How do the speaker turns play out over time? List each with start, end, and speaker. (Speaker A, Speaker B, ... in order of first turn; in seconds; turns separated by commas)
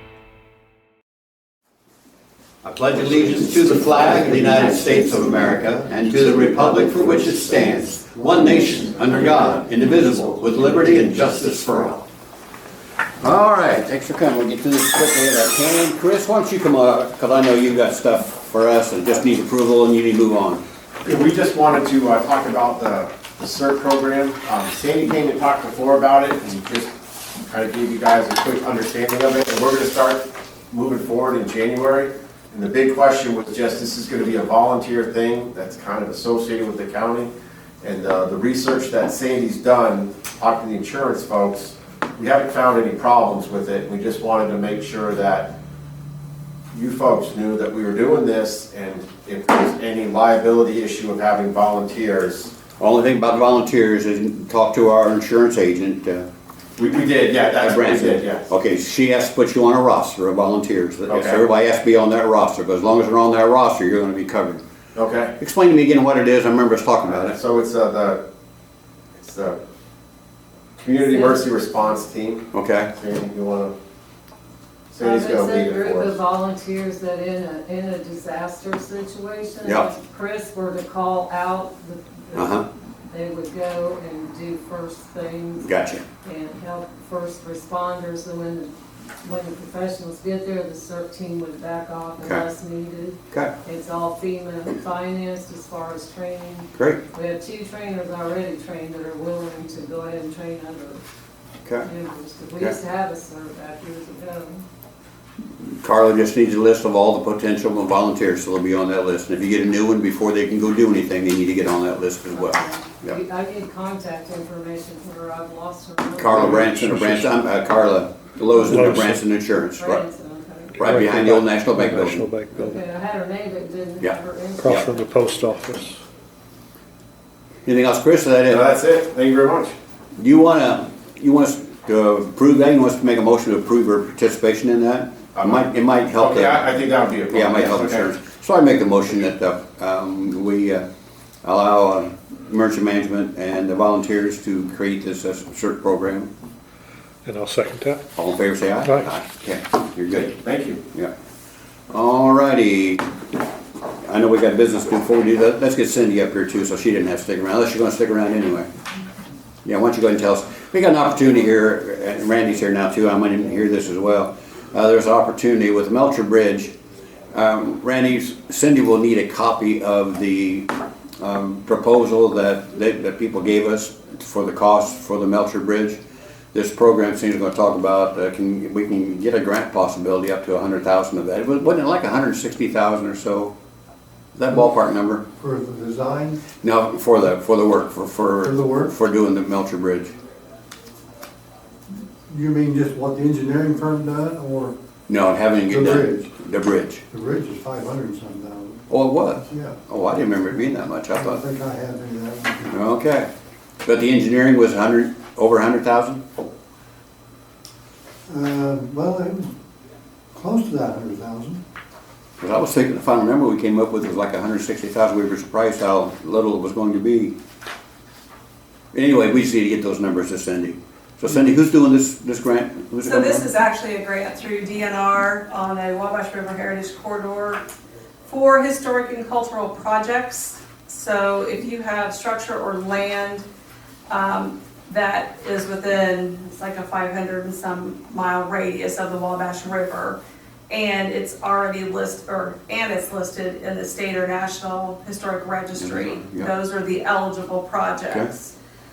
Speaker A: 2.6-12.0, Speaker B: 5.2-6.0, Speaker B: 8.0-9.2, Speaker A: 13.2-20.6, Speaker C: 21.0-45.5, Speaker C: 46.7-52.5, Speaker A: 52.8-56.2, Speaker C: 56.8-58.5, Speaker A: 57.6-64.6, Speaker C: 61.1-61.4, Speaker C: 64.9-65.3, Speaker A: 65.4-67.4, Speaker C: 67.0-68.2, Speaker C: 69.2-69.6, Speaker C: 70.8-73.7, Speaker D: 71.1-72.0, Speaker A: 72.5-72.9, Speaker C: 74.9-76.2, Speaker D: 75.0-85.7, Speaker A: 79.6-79.9, Speaker A: 82.3-82.7, Speaker A: 85.6-86.0, Speaker D: 86.2-101.0, Speaker A: 96.7-97.0, Speaker D: 101.8-104.6, Speaker A: 105.6-113.2, Speaker D: 112.3-116.7, Speaker A: 116.2-120.0, Speaker E: 116.3-117.3, Speaker E: 118.6-119.2, Speaker D: 119.8-120.8, Speaker A: 120.8-122.3, Speaker E: 120.8-122.8, Speaker D: 122.6-125.1, Speaker A: 124.0-124.9, Speaker E: 124.6-126.0, Speaker A: 127.6-128.6, Speaker C: 128.5-129.7, Speaker A: 130.2-136.7, Speaker C: 135.3-138.1, Speaker A: 137.3-140.8, Speaker A: 141.4-146.3, Speaker E: 147.2-148.0, Speaker A: 148.2-150.3, Speaker E: 148.8-149.1, Speaker C: 150.2-150.8, Speaker A: 151.9-153.0, Speaker A: 154.0-158.7, Speaker A: 159.6-166.7, Speaker A: 167.3-176.0, Speaker A: 176.5-183.5, Speaker A: 184.3-185.2, Speaker B: 185.3-186.4, Speaker A: 186.6-190.1, Speaker B: 188.4-188.9, Speaker B: 192.3-194.7, Speaker A: 195.1-197.0, Speaker B: 195.7-196.3, Speaker B: 197.1-198.9, Speaker A: 198.9-201.4, Speaker B: 199.4-199.8, Speaker B: 201.1-202.7, Speaker A: 202.7-203.3, Speaker A: 203.8-206.2, Speaker B: 208.3-209.5, Speaker B: 210.3-211.6, Speaker A: 212.4-217.3, Speaker A: 218.9-223.5, Speaker F: 223.1-227.6, Speaker F: 228.3-233.4, Speaker F: 234.1-248.5, Speaker A: 245.7-246.5